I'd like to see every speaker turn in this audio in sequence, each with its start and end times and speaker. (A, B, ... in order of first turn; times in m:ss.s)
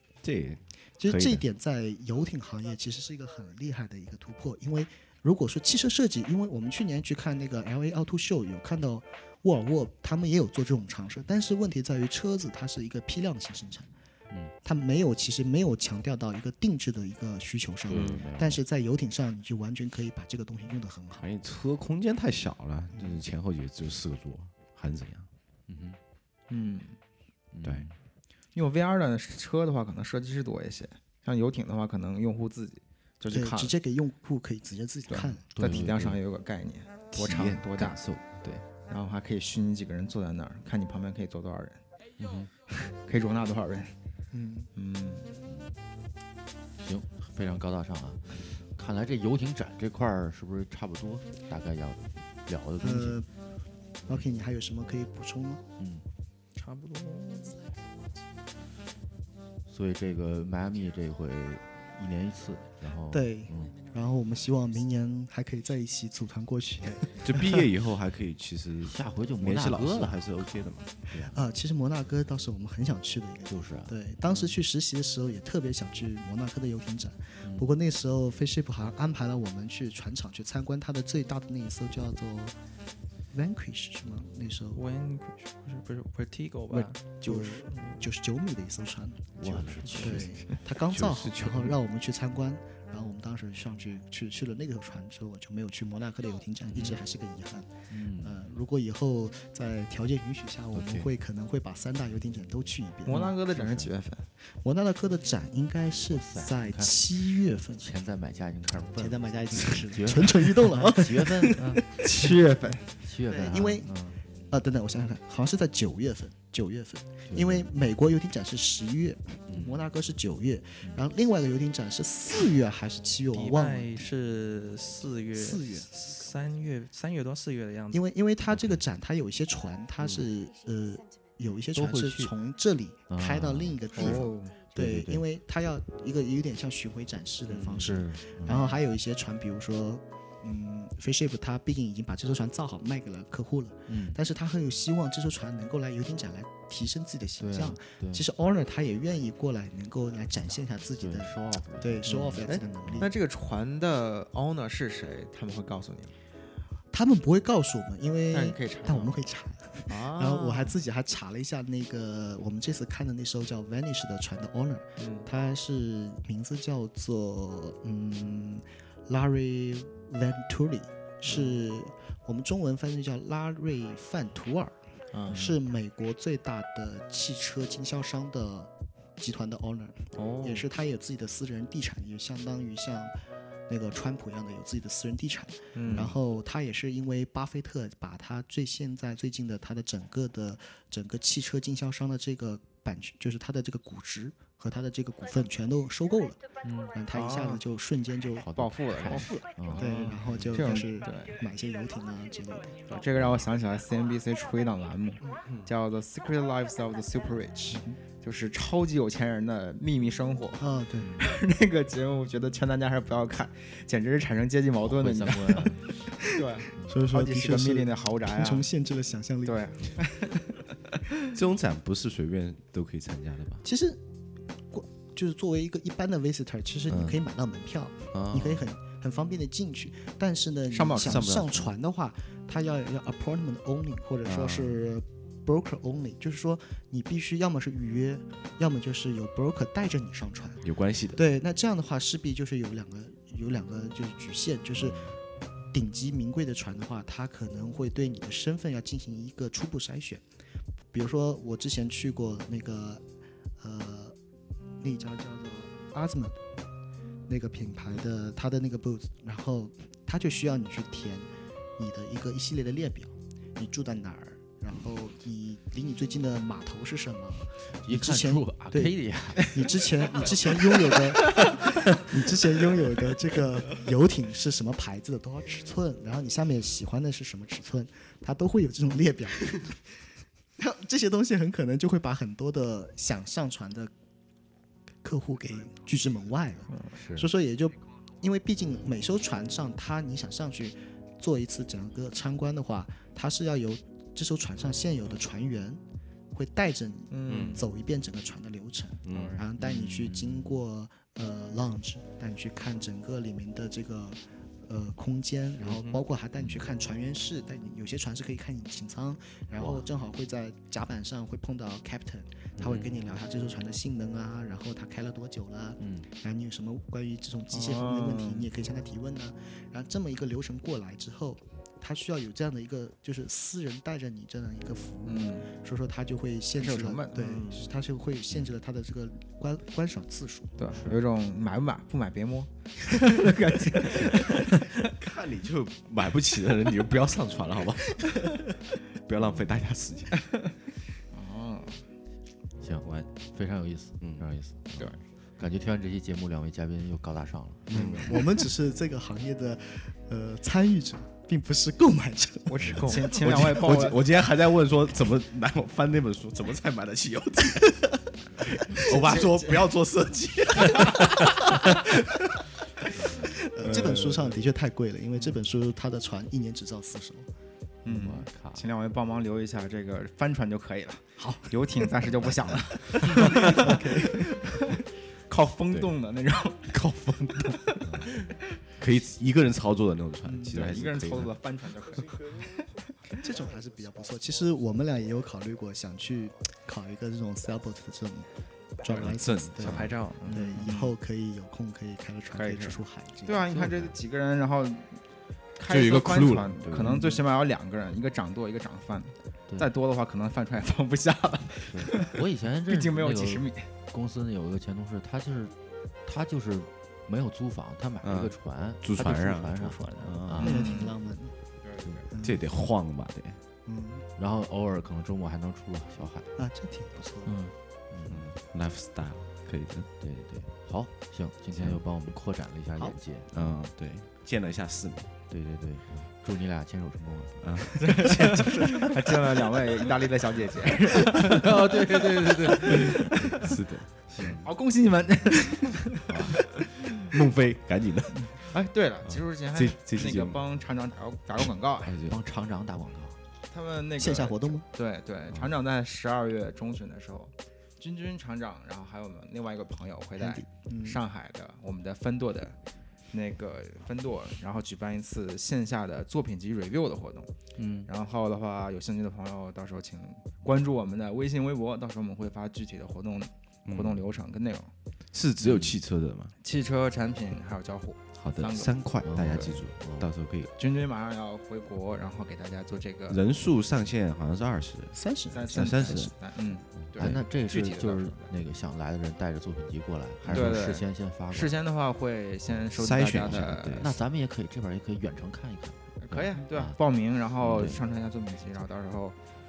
0:00.2-0:01.4 A
0:01.0-0:13.9 B
0:14.6-0:21.3 B
0:17.9-0:18.6 C
0:17.9-0:18.3 A
0:21.2-0:25.3 A
0:22.9-0:23.2 B
0:25.7-0:26.0 C
0:26.5-0:27.0 D
0:27.5-0:27.9 C
0:27.6-0:27.9 A
0:28.6-0:33.7 D
0:33.3-0:35.4 B
0:35.1-0:41.8 D
0:35.6-0:36.2 C
0:37.2-0:37.9 C
0:37.2-0:38.3 A
0:42.2-0:42.5 A
0:42.7-0:43.9 D
0:44.3-0:44.7 B
0:44.8-0:45.3 D
0:46.8-0:53.2 C
0:52.8-0:53.3 B
0:54.1-0:55.6 B
0:55.8-0:56.1 C
0:56.6-0:57.6 E
0:59.7-1:03.8 C
1:03.1-1:07.6 B
1:07.2-1:10.9 A
1:08.8-1:11.4 C
1:11.2-1:22.6 B
1:13.5-1:14.6 C
1:17.4-1:17.7 C
1:23.3-1:24.9 B
1:24.7-1:28.1 E
1:26.7-1:43.2 B
1:29.4-1:30.4 C
1:30.7-1:31.8 A
1:36.7-1:37.0 C
1:37.9-1:38.5 C
1:40.8-1:41.1 C
1:43.1-1:44.3 D
1:43.1-1:43.9 C
1:44.6-1:48.0 B
1:46.1-1:47.2 C
1:47.8-1:52.0 C
1:48.8-1:52.2 B
1:51.6-1:53.0 D
1:53.0-1:54.2 C
1:53.3-1:54.0 B
1:54.5-2:03.9 B
1:57.3-1:57.7 C
1:59.5-1:59.9 C
2:03.3-2:08.0 E
2:05.3-2:05.9 B
2:07.9-2:33.1 B
2:08.5-2:08.8 C
2:10.0-2:10.2 A
2:11.8-2:12.4 C
2:13.1-2:14.2 C
2:13.9-2:14.6 D
2:14.8-2:15.2 C
2:17.5-2:18.7 C
2:23.9-2:24.2 C
2:27.4-2:28.3 C
2:31.0-2:33.1 C
2:32.5-2:36.2 D
2:36.9-2:54.8 B
2:38.3-2:39.2 D
2:39.9-2:40.8 D
2:45.0-2:45.3 D
2:51.3-2:51.5 D
2:55.3-2:55.6 C
2:55.3-3:03.2 B
3:00.2-3:00.6 D
3:03.7-3:22.9 B
3:05.8-3:06.2 D
3:16.6-3:17.0 C
3:17.1-3:17.6 D
3:18.4-3:20.7 C
3:18.5-3:21.4 D
3:22.9-3:35.8 D
3:25.2-3:25.5 B
3:27.7-3:28.0 B
3:30.6-3:31.2 B
3:31.0-3:31.3 C
3:34.8-3:35.9 C
3:36.1-3:39.6 B
3:36.3-3:38.7 D
3:36.8-3:37.0 C
3:39.4-3:40.6 D
3:41.3-3:43.6 A
3:43.6-3:44.0 B
3:44.7-4:05.1 B
3:46.9-3:47.2 C
3:48.1-3:48.7 A
3:50.7-3:51.2 D
3:51.0-3:51.6 A
3:54.3-3:54.7 A
4:00.6-4:01.2 A
4:05.7-4:10.2 B
4:10.9-4:13.0 B
4:13.6-4:14.2 B
4:14.8-4:16.4 B
4:17.3-4:39.9 B
4:27.8-4:30.8 C
4:31.5-4:31.9 C
4:40.6-4:43.9 B
4:45.0-5:30.6 B
4:46.9-4:47.3 C
4:57.1-4:57.6 D
4:57.3-4:57.6 A
4:59.1-4:59.4 A
4:59.6-5:00.6 C
5:12.6-5:12.9 C
5:15.8-5:16.1 C
5:17.5-5:18.5 D
5:25.0-5:25.5 D
5:26.6-5:27.6 D
5:30.6-5:34.9 D
5:30.7-5:31.0 C
5:33.9-5:34.4 C
5:34.9-5:40.2 A
5:39.2-5:39.4 C
5:40.2-5:40.5 D
5:41.1-5:41.8 D
5:42.6-5:48.2 C
5:42.8-5:43.1 A
5:47.7-5:48.2 A
5:48.0-5:53.2 B
5:52.5-5:54.0 D
5:52.6-5:53.0 C
5:53.1-6:01.9 A
5:58.7-5:59.5 B
6:00.9-6:02.4 B
6:03.0-6:07.3 B
6:03.1-6:04.4 A
6:07.8-6:16.7 D
6:07.9-6:08.7 C
6:11.2-6:11.6 B
6:12.8-6:14.5 B
6:16.7-6:17.6 A
6:17.4-6:18.4 D
6:17.8-6:18.1 C
6:18.8-6:21.4 A
6:20.2-6:23.2 D
6:23.1-6:33.7 B
6:28.8-6:30.0 A
6:29.6-6:30.7 E
6:30.2-6:30.9 D
6:32.3-6:35.0 D
6:35.6-6:43.7 D
6:35.6-6:37.2 A
6:41.7-6:50.8 C
6:48.0-6:50.6 A
6:49.7-6:50.1 E
6:50.4-6:50.9 D
6:50.4-6:51.4 B
6:51.6-6:52.1 D
6:52.1-6:52.4 B
6:52.2-6:53.4 A
6:53.7-6:54.1 B
6:54.2-6:56.3 C
6:56.4-6:57.4 B
6:57.2-6:57.5 E
6:57.9-6:58.3 C
6:58.1-6:59.9 A
7:00.0-7:03.4 C
7:01.5-7:01.8 A
7:03.3-7:05.2 A
7:05.3-7:08.4 C
7:07.4-7:09.0 A
7:07.8-7:13.5 D
7:11.0-7:13.6 C
7:13.3-7:14.4 A
7:14.1-7:14.5 C
7:14.3-7:17.1 D
7:16.1-7:16.4 C
7:17.1-7:18.4 A
7:18.2-7:21.9 D
7:19.1-7:20.4 A
7:21.8-7:22.2 A
7:22.1-7:23.2 C
7:23.5-7:32.6 D
7:24.0-7:24.7 B
7:30.2-7:31.0 B
7:33.1-7:37.3 D
7:37.6-7:37.9 C
7:37.9-7:44.7 D
7:43.7-7:44.1 A
7:45.1-7:46.4 A
7:45.4-7:45.8 C
7:46.4-7:49.5 D
7:48.2-7:50.5 A
7:49.0-7:50.1 C
7:50.6-7:53.2 D
7:53.1-7:56.2 A
7:54.9-7:56.1 B
7:55.3-7:58.3 D
7:56.8-8:01.6 C
8:00.2-8:04.0 D
8:02.7-8:03.9 A
8:03.2-8:06.8 C
8:06.0-8:09.2 D
8:07.4-8:07.8 C